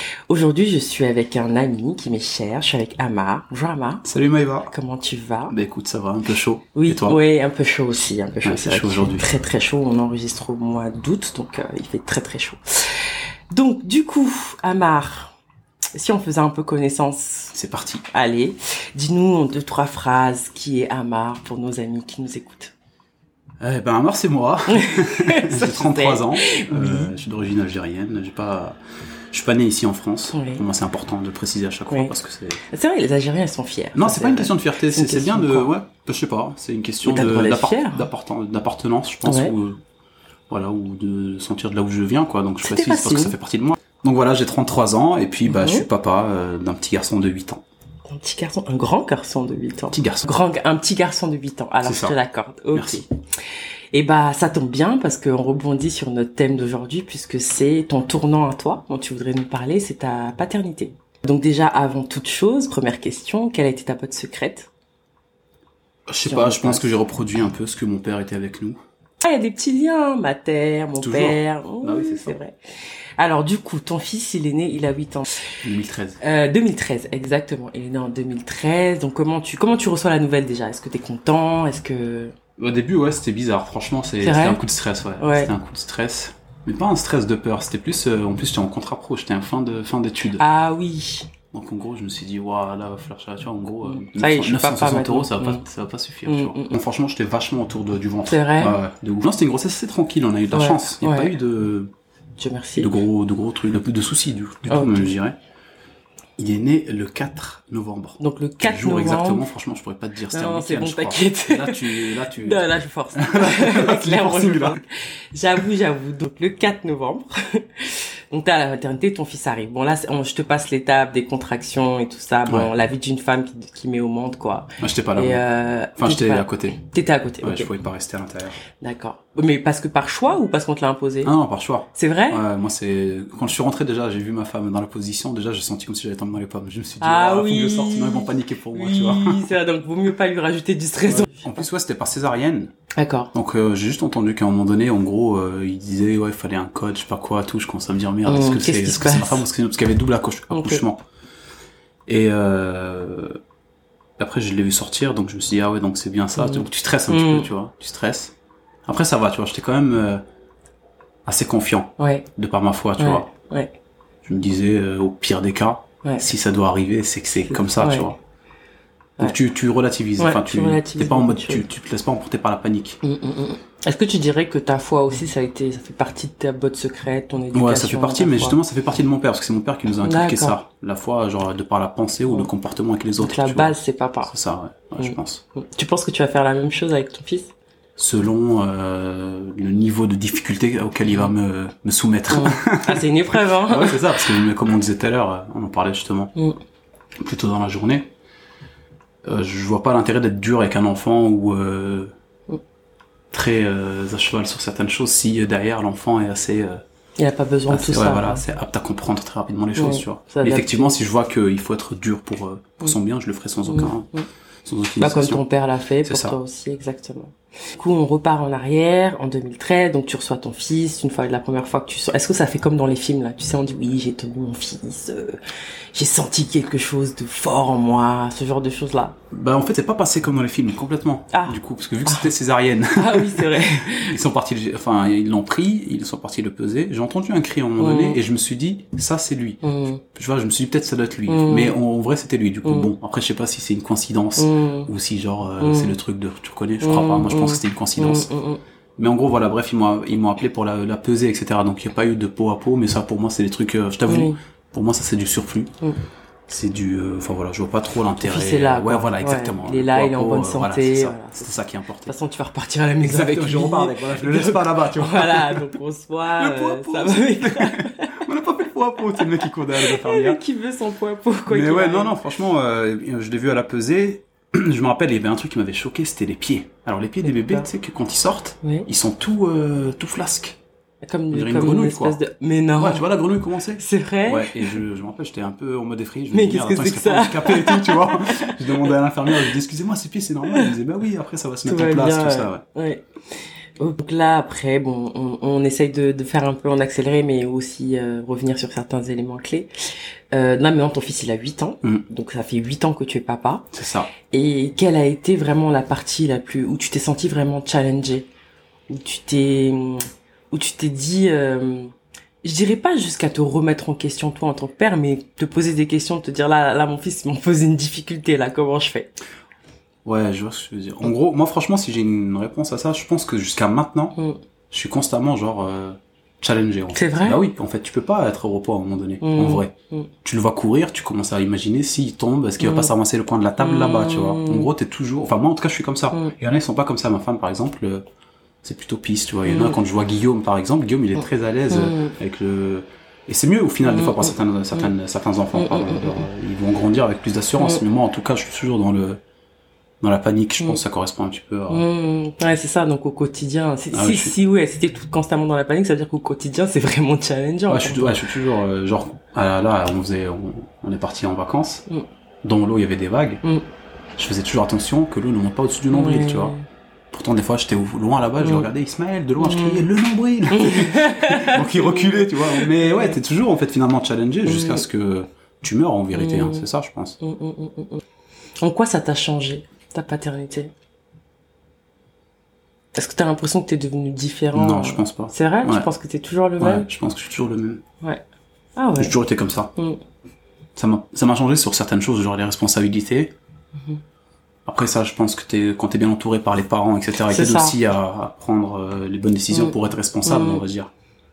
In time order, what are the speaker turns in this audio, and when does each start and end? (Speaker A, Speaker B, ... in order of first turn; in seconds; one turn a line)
Speaker A: 0.3-4.0
Speaker B: 4.0-4.7
Speaker A: 4.6-5.5
Speaker B: 5.5-7.2
Speaker A: 6.7-15.3
Speaker B: 8.4-9.3
Speaker A: 15.9-17.5
Speaker B: 17.5-18.0
Speaker A: 18.1-22.7
Speaker B: 23.6-28.8
Speaker A: 24.7-27.1
Speaker B: 29.3-32.6
Speaker A: 30.3-30.6
Speaker A: 32.7-35.7
Speaker B: 33.9-39.8
Speaker A: 37.0-38.1
Speaker A: 39.2-39.5
Speaker B: 40.5-47.6
Speaker A: 42.6-43.4
Speaker A: 45.5-45.9
Speaker A: 48.1-53.1
Speaker B: 49.9-50.2
Speaker B: 51.8-52.1
Speaker B: 52.7-53.0
Speaker A: 53.9-64.7
Speaker B: 66.1-68.8
Speaker A: 66.2-66.9
Speaker A: 69.2-72.5
Speaker B: 71.0-72.4
Speaker A: 73.2-75.3
Speaker B: 75.6-76.2
Speaker A: 76.2-82.3
Speaker B: 82.6-90.4
Speaker A: 84.2-84.6
Speaker A: 85.2-85.5
Speaker A: 90.3-91.3
Speaker B: 91.5-101.9
Speaker A: 93.8-95.6
Speaker A: 96.2-96.8
Speaker A: 98.3-98.8
Speaker A: 100.5-101.3
Speaker A: 102.4-103.0
Speaker B: 102.8-105.3
Speaker A: 104.7-105.1
Speaker B: 106.4-114.8
Speaker A: 108.2-109.5
Speaker A: 110.3-127.7
Speaker B: 122.5-122.7
Speaker B: 124.8-125.4
Speaker B: 126.0-126.8
Speaker B: 127.4-128.6
Speaker A: 128.8-131.3
Speaker B: 131.2-139.5
Speaker A: 131.9-132.4
Speaker A: 137.0-141.6
Speaker B: 141.1-142.7
Speaker A: 143.0-143.3
Speaker B: 143.3-151.0
Speaker A: 148.2-149.4
Speaker A: 150.5-150.8
Speaker B: 152.1-153.4
Speaker B: 154.2-158.3
Speaker A: 156.4-157.5
Speaker B: 158.8-160.2
Speaker B: 161.2-163.3
Speaker A: 162.0-162.3
Speaker A: 163.0-163.7
Speaker B: 164.2-168.2
Speaker A: 167.3-168.1
Speaker B: 169.2-173.0
Speaker A: 170.2-171.7
Speaker A: 173.0-178.6
Speaker B: 177.5-183.7
Speaker A: 180.0-180.6
Speaker A: 183.2-184.3
Speaker B: 184.3-185.4
Speaker A: 185.0-187.5
Speaker B: 188.0-196.3
Speaker A: 191.1-191.3
Speaker A: 192.3-194.4
Speaker B: 197.2-198.1
Speaker B: 199.2-202.1
Speaker B: 203.3-206.8
Speaker A: 207.2-208.4
Speaker B: 207.7-214.1
Speaker A: 209.7-210.9
Speaker A: 213.7-214.2
Speaker B: 214.6-215.4
Speaker A: 215.0-225.4
Speaker B: 216.0-216.4
Speaker A: 225.9-229.2
Speaker B: 229.3-239.6
Speaker A: 231.3-232.3
Speaker A: 232.9-234.2
Speaker A: 237.8-238.2
Speaker A: 239.6-240.0
Speaker B: 240.1-248.3
Speaker A: 241.3-241.8
Speaker A: 244.4-244.9
Speaker A: 245.6-245.9
Speaker A: 246.8-248.6
Speaker B: 249.0-255.7
Speaker A: 254.1-254.4
Speaker B: 256.5-262.1
Speaker A: 258.2-261.5
Speaker A: 262.1-268.2
Speaker B: 263.0-265.7
Speaker B: 266.4-270.4
Speaker A: 269.1-272.2
Speaker B: 271.5-280.6
Speaker A: 277.2-277.7
Speaker A: 278.6-278.9
Speaker A: 281.0-283.0
Speaker B: 281.3-282.2
Speaker B: 282.8-292.6
Speaker A: 283.8-284.8
Speaker A: 286.3-289.5
Speaker A: 290.4-290.7
Speaker A: 291.6-293.0
Speaker A: 293.8-299.7
Speaker A: 300.3-303.7
Speaker B: 303.7-304.1
Speaker A: 304.3-308.3
Speaker A: 308.9-319.1
Speaker B: 320.0-324.2
Speaker B: 324.7-329.7
Speaker A: 326.9-327.4
Speaker A: 329.2-330.1
Speaker B: 330.2-338.0
Speaker A: 332.6-332.9
Speaker A: 333.6-334.7
Speaker B: 338.6-349.2
Speaker A: 339.4-339.8
Speaker A: 341.7-342.1
Speaker A: 343.8-344.9
Speaker A: 345.5-346.3
Speaker A: 347.6-347.8
Speaker B: 350.0-351.8
Speaker A: 351.7-358.3
Speaker B: 353.9-354.3
Speaker B: 357.7-361.8
Speaker B: 362.4-363.4
Speaker B: 364.2-366.6
Speaker A: 365.9-366.6
Speaker B: 367.1-377.2
Speaker A: 368.4-368.7
Speaker A: 369.4-369.9
Speaker A: 370.5-373.1
Speaker A: 374.4-374.8
Speaker A: 376.1-376.7
Speaker A: 377.2-378.0
Speaker A: 378.6-380.7
Speaker A: 382.9-386.9
Speaker B: 384.5-385.9
Speaker B: 386.6-387.8
Speaker A: 388.8-389.1
Speaker B: 389.0-389.7
Speaker B: 390.8-393.3
Speaker B: 394.6-400.9
Speaker A: 397.2-397.8
Speaker A: 399.5-400.6